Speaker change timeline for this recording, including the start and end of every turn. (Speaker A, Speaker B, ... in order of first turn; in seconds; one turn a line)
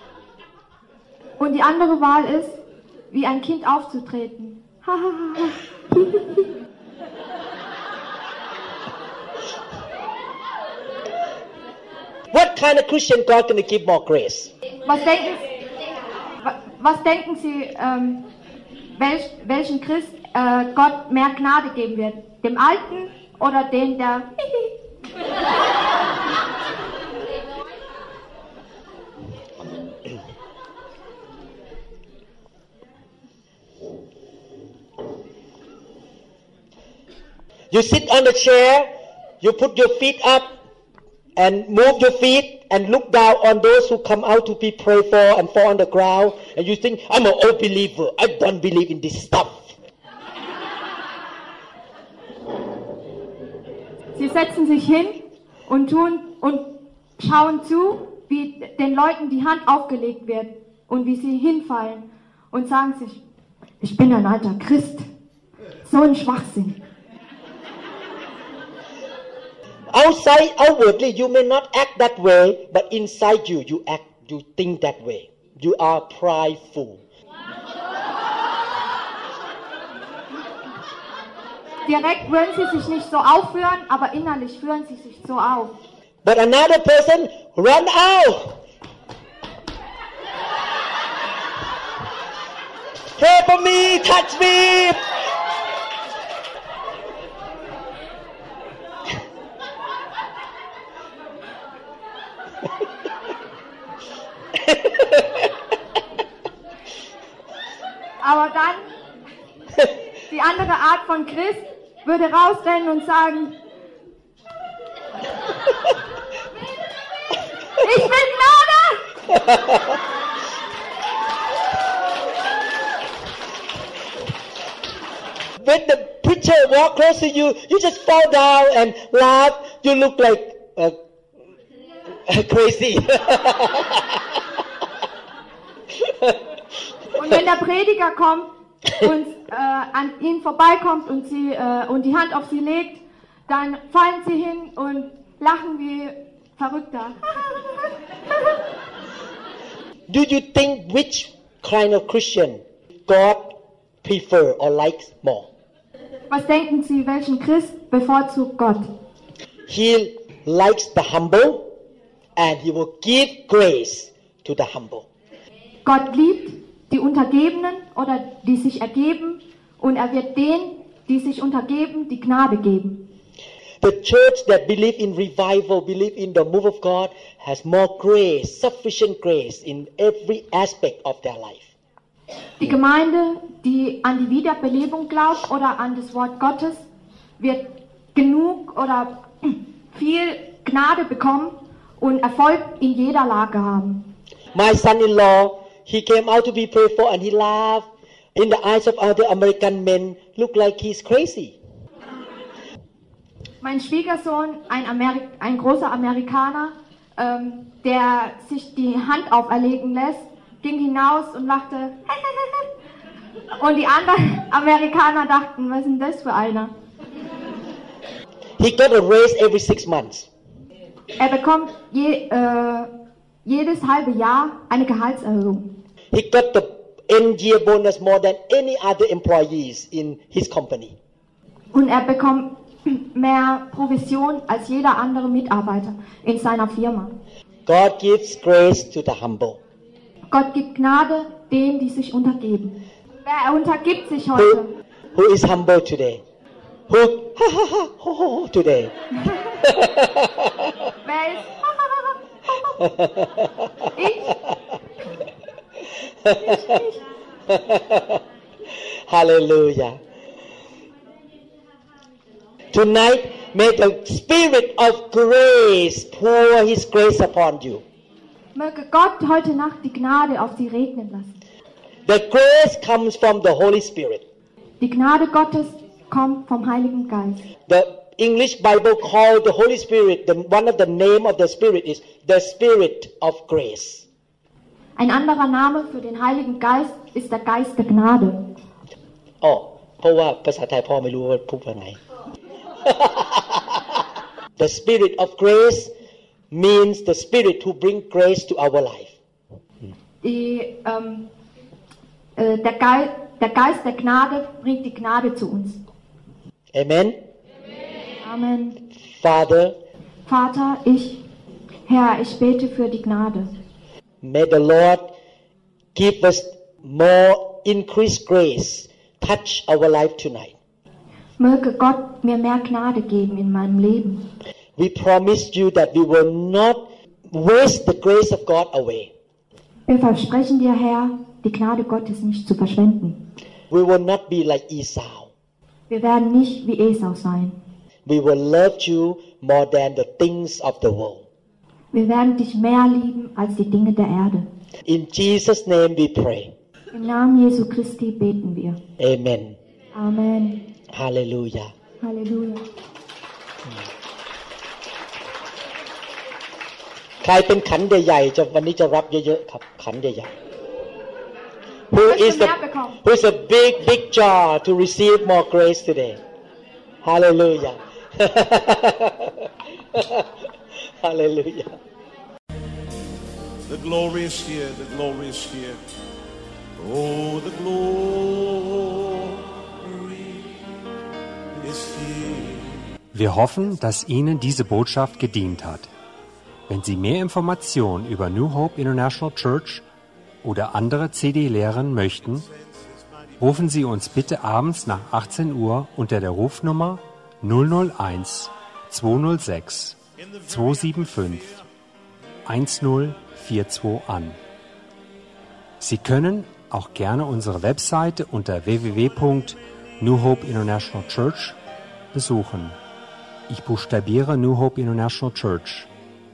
Speaker A: 1.4-2.6
Speaker A: 3.1-6.5
Speaker B: 12.3-14.5
Speaker A: 14.8-15.4
Speaker A: 16.4-18.2
Speaker A: 18.9-24.7
Speaker B: 37.7-40.6
Speaker B: 41.4-49.7
Speaker A: 54.1-63.2
Speaker A: 63.8-65.0
Speaker A: 65.8-66.8
Speaker B: 69.9-77.0
Speaker A: 81.8-85.7
Speaker B: 86.2-88.6
Speaker B: 93.2-95.1
Speaker B: 104.6-105.5
Speaker A: 108.2-108.9
Speaker A: 110.3-113.5
Speaker A: 117.8-119.1
Speaker B: 119.3-119.9
Speaker B: 125.6-130.9
Speaker B: 132.3-134.2
Speaker B: 136.0-136.4
Speaker A: 137.1-147.4
Speaker B: 150.1-155.5
Speaker A: 156.3-158.9
Speaker B: 159.7-161.7
Speaker B: 162.3-165.1
Speaker A: 165.8-173.0
Speaker B: 173.8-181.7
Speaker A: 182.6-186.8
Speaker A: 187.4-194.1
Speaker B: 194.5-201.6
Speaker A: 203.6-212.7
Speaker A: 213.5-216.7
Speaker B: 218.6-220.3
Speaker A: 221.2-222.9
Speaker A: 223.4-225.7
Speaker B: 226.1-230.9
Speaker A: 231.7-237.1
Speaker B: 237.7-239.6
Speaker A: 240.3-244.7
Speaker B: 244.3-244.6
Speaker B: 245.1-246.2
Speaker B: 246.9-249.0
Speaker B: 249.5-250.7
Speaker A: 251.0-252.6
Speaker B: 252.8-253.9
Speaker A: 253.9-254.4
Speaker B: 256.2-256.8
Speaker B: 257.5-258.2
Speaker B: 259.1-260.0
Speaker B: 262.7-267.8
Speaker A: 268.5-271.4
Speaker B: 272.1-274.2
Speaker A: 274.8-277.4
Speaker B: 277.7-284.1
Speaker A: 285.0-288.5
Speaker B: 289.4-292.0
Speaker B: 292.8-294.0
Speaker B: 294.6-295.9
Speaker B: 296.5-299.1
Speaker A: 300.2-301.3
Speaker A: 302.4-305.8
Speaker B: 306.7-307.2
Speaker A: 308.2-308.8
Speaker B: 309.1-309.8
Speaker A: 310.2-311.2
Speaker A: 311.9-313.6
Speaker B: 314.2-315.1
Speaker B: 315.9-320.6
Speaker A: 321.4-324.2
Speaker B: 324.8-329.1
Speaker A: 329.9-333.2
Speaker B: 333.7-335.3
Speaker A: 335.9-337.6
Speaker B: 338.1-341.3
Speaker A: 341.9-344.5
Speaker B: 344.9-346.5
Speaker A: 346.9-348.8
Speaker B: 349.0-349.6
Speaker A: 349.9-350.7
Speaker B: 350.9-351.7
Speaker A: 352.0-352.7
Speaker B: 357.2-360.3
Speaker B: 361.9-366.2
Speaker A: 361.9-363.0
Speaker B: 367.0-370.4
Speaker B: 371.0-371.8
Speaker C: 373.7-375.8
Speaker C: 376.8-380.4
Speaker C: 381.6-382.8
Speaker D: 383.1-385.9
Speaker D: 386.7-389.8
Speaker D: 390.4-392.4
Speaker C: 392.3-393.4
Speaker D: 393.4-401.6
Speaker C: 400.2-401.6
Speaker D: 402.4-404.4
Speaker D: 405.8-411.6
Speaker D: 412.1-412.8
Speaker D: 413.5-415.9